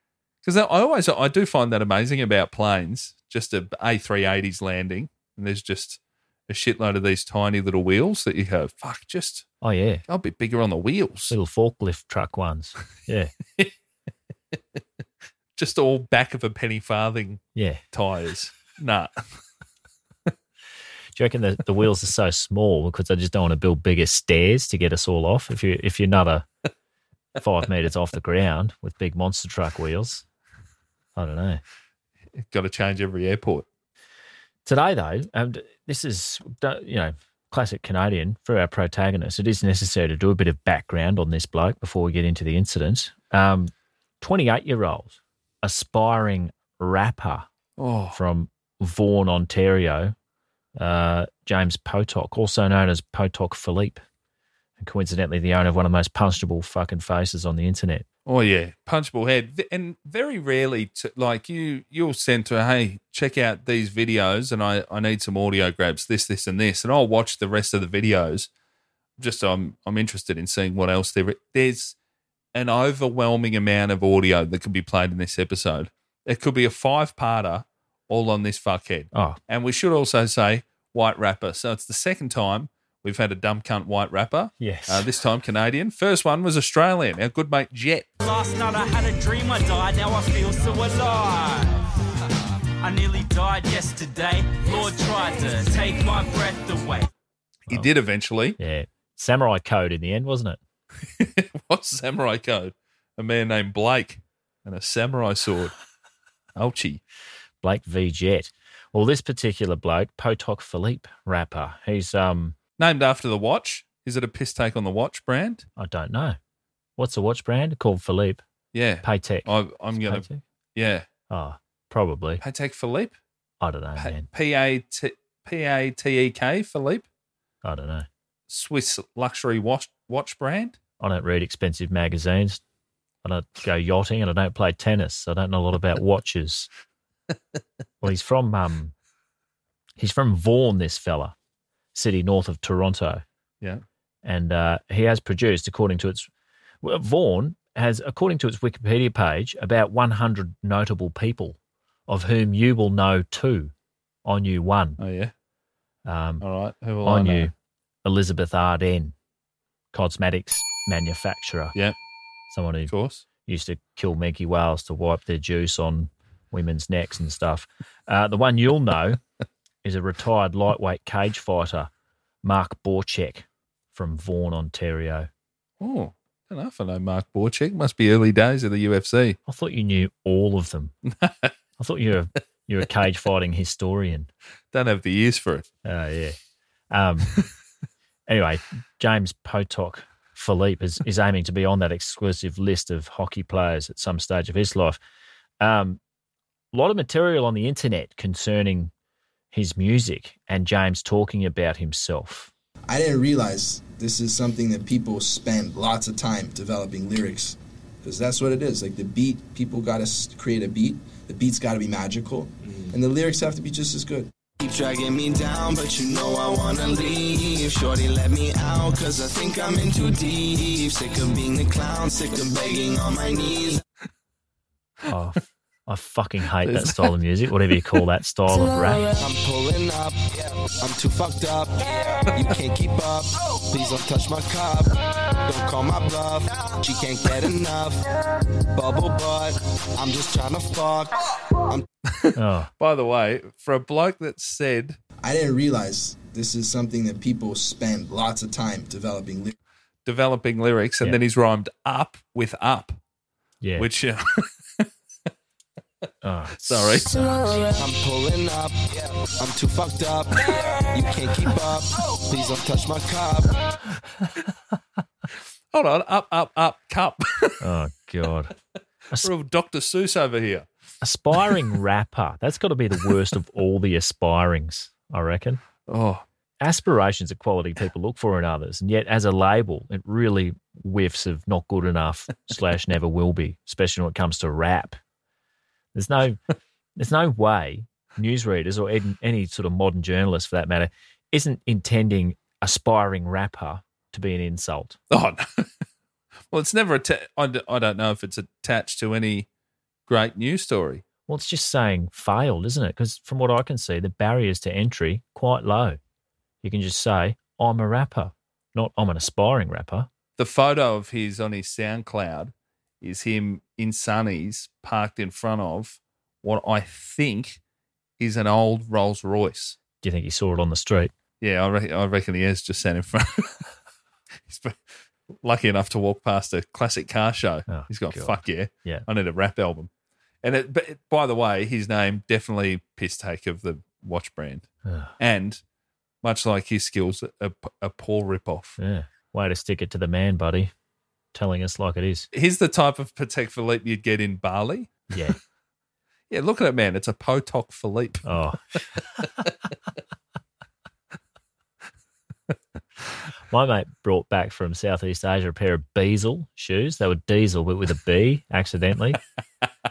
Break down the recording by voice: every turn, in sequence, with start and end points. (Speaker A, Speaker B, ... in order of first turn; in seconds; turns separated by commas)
Speaker A: 0.4-9.5, Speaker B: 9.6-10.0, Speaker A: 10.1-11.3, Speaker B: 11.3-13.3, Speaker A: 15.6-19.1, Speaker B: 17.6-17.8, Speaker B: 21.1-26.4, Speaker B: 27.4-30.2, Speaker B: 31.1-31.6, Speaker A: 32.4-33.6, Speaker B: 34.6-47.5, Speaker A: 47.8-48.2, Speaker B: 48.1-50.1, Speaker B: 50.8-54.0, Speaker B: 54.8-58.0, Speaker A: 58.2-68.5, Speaker A: 69.2-71.9, Speaker A: 72.5-88.1, Speaker B: 79.1-79.4, Speaker B: 84.6-85.1, Speaker C: 88.2-91.8, Speaker C: 92.8-97.1, Speaker A: 97.7-98.6, Speaker B: 98.6-100.6, Speaker A: 101.2-105.7, Speaker A: 106.5-107.0, Speaker B: 107.6-112.5, Speaker A: 112.8-115.7, Speaker B: 115.8-116.4, Speaker B: 117.0-118.4, Speaker A: 118.7-121.0, Speaker B: 119.0-120.4, Speaker B: 121.3-122.4, Speaker A: 122.4-123.1, Speaker B: 123.6-124.2, Speaker A: 124.0-127.0, Speaker B: 127.6-128.1, Speaker A: 128.5-130.8, Speaker B: 131.0-132.6, Speaker B: 133.2-136.7, Speaker B: 138.0-138.9, Speaker B: 140.0-141.3, Speaker B: 141.9-143.2, Speaker B: 144.2-146.3, Speaker B: 146.8-151.6, Speaker B: 152.1-153.7, Speaker B: 154.2-155.0, Speaker A: 155.0-155.3, Speaker B: 156.1-156.4, Speaker A: 156.4-157.5, Speaker B: 157.0-157.5, Speaker B: 158.0-159.1, Speaker B: 159.9-161.7, Speaker B: 162.5-162.9, Speaker A: 162.9-163.2, Speaker B: 163.4-169.2, Speaker B: 169.8-171.9, Speaker B: 172.4-175.3, Speaker A: 175.8-179.4, Speaker B: 179.5-180.9, Speaker A: 181.2-181.5, Speaker B: 181.8-184.3, Speaker A: 184.7-185.7, Speaker B: 185.8-186.4, Speaker B: 186.9-187.3, Speaker B: 188.3-195.0, Speaker B: 195.6-196.0, Speaker B: 196.7-198.9, Speaker B: 199.5-202.5, Speaker D: 202.9-214.3, Speaker E: 214.6-223.8, Speaker B: 225.1-229.1, Speaker A: 226.6-227.1, Speaker E: 229.2-231.8, Speaker E: 232.4-237.9, Speaker D: 236.9-237.2, Speaker E: 238.8-241.1, Speaker A: 242.1-245.0, Speaker B: 242.3-242.7, Speaker D: 245.2-249.5, Speaker A: 250.1-253.0, Speaker B: 253.6-253.9, Speaker A: 253.8-254.9, Speaker B: 256.2-257.6, Speaker A: 256.6-257.1, Speaker E: 257.7-263.5, Speaker A: 265.7-267.6, Speaker B: 267.6-268.5, Speaker A: 269.2-270.7, Speaker B: 271.0-275.6, Speaker A: 275.9-276.2, Speaker B: 276.6-285.0, Speaker B: 285.9-286.4, Speaker B: 286.9-295.0, Speaker A: 295.1-295.7, Speaker A: 296.5-299.5, Speaker A: 300.1-301.0, Speaker B: 301.2-306.0, Speaker B: 306.6-310.1, Speaker A: 310.4-317.6, Speaker A: 318.2-319.8, Speaker B: 320.0-321.1, Speaker A: 321.4-323.7, Speaker A: 324.5-324.8, Speaker A: 325.4-329.9, Speaker B: 327.7-329.1, Speaker A: 330.4-334.7, Speaker B: 334.8-335.1, Speaker A: 335.2-335.6, Speaker A: 336.2-338.8, Speaker B: 338.8-340.7, Speaker B: 341.3-342.3, Speaker A: 342.3-345.1, Speaker B: 345.1-345.4, Speaker A: 346.3-348.2, Speaker B: 348.2-349.2, Speaker B: 353.5-359.2